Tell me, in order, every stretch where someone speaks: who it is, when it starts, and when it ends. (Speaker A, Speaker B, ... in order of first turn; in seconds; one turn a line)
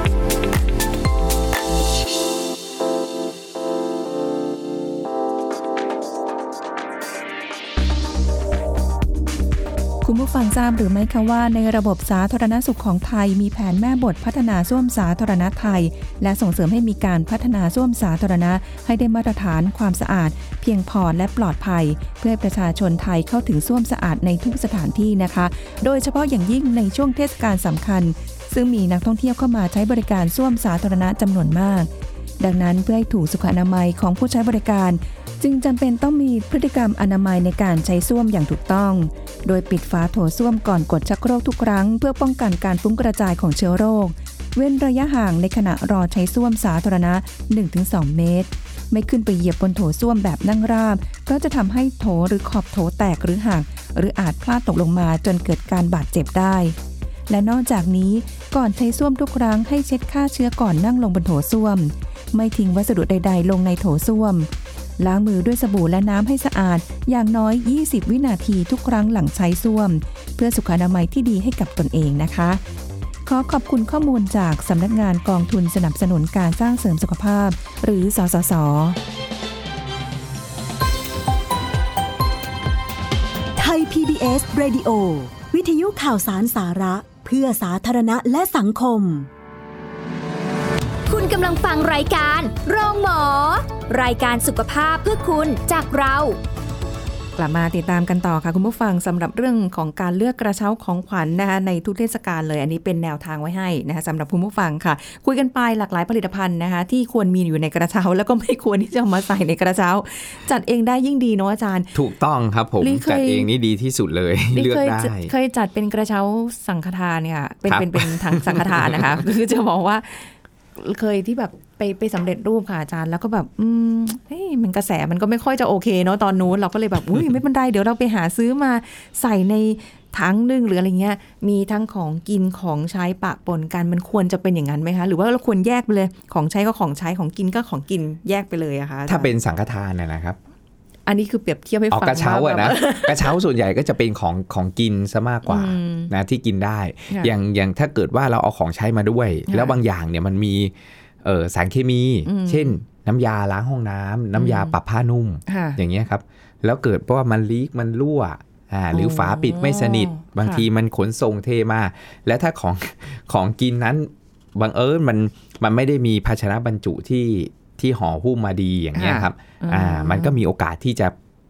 Speaker A: 10.0-31.9
Speaker A: 32.4-56.7
Speaker A: 57.3-72.6
Speaker A: 73.2-79.0
Speaker B: 83.6-89.3
Speaker C: 91.1-96.4
Speaker A: 97.4-111.9
Speaker D: 111.9-115.3
Speaker A: 112.8-113.5
Speaker A: 114.5-139.3
Speaker D: 117.7-119.2
Speaker D: 139.1-140.4
Speaker A: 141.1-143.4
Speaker D: 141.9-171.1
Speaker A: 145.5-146.1
Speaker A: 149.5-149.8
Speaker A: 152.2-152.7
Speaker A: 154.3-154.7
Speaker A: 155.5-155.8
Speaker A: 158.9-160.7
Speaker A: 168.9-170.4